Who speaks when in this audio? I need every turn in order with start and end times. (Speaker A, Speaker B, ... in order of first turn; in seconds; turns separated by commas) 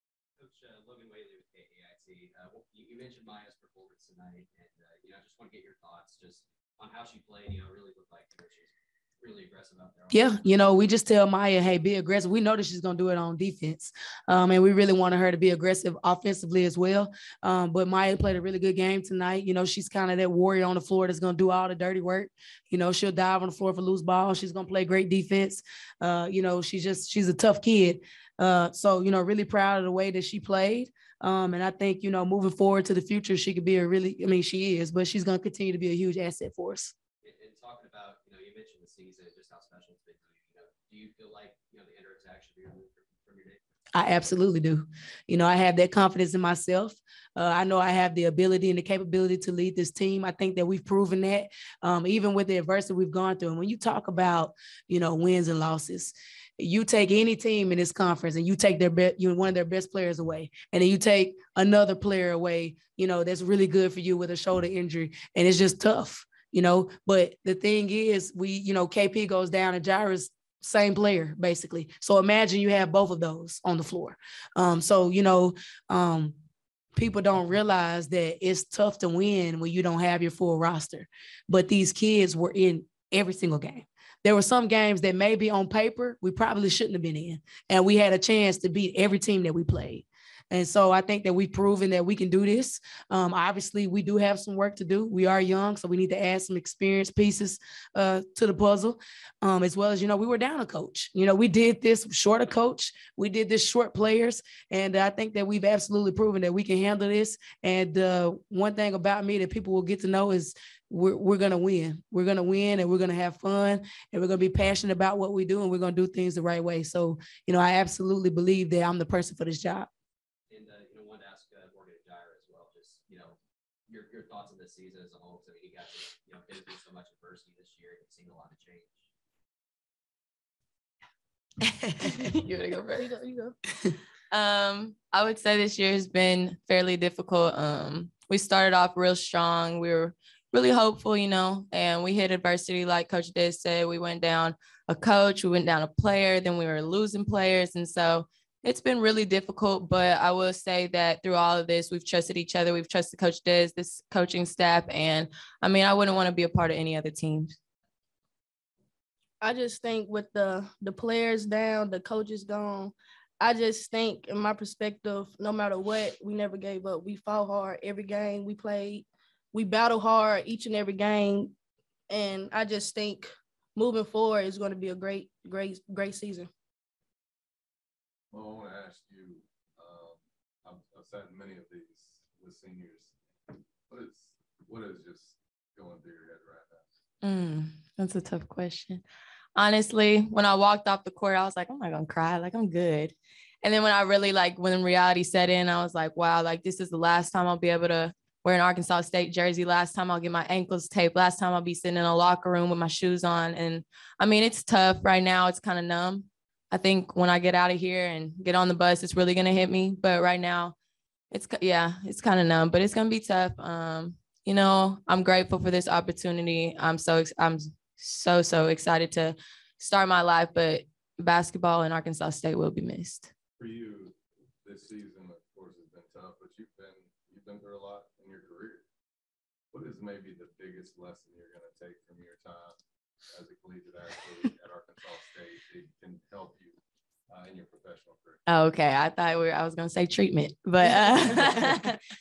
Speaker A: 0.4-10.3, Speaker B: 10.1-36.9, Speaker A: 37.2-43.6, Speaker B: 43.9-76.3, Speaker B: 77.0-119.9, Speaker A: 120.5-123.3, Speaker A: 123.9-129.0, Speaker C: 132.0-133.1, Speaker D: 132.9-133.6, Speaker C: 134.3-157.6, Speaker D: 159.4-171.5, Speaker D: 172.1-176.5, Speaker E: 178.3-183.2, Speaker E: 183.9-186.8, Speaker C: 187.2-189.0, Speaker C: 189.6-210.7, Speaker C: 211.3-223.3, Speaker E: 223.6-228.8, Speaker E: 229.7-232.8, Speaker E: 233.3-238.4, Speaker C: 238.5-242.0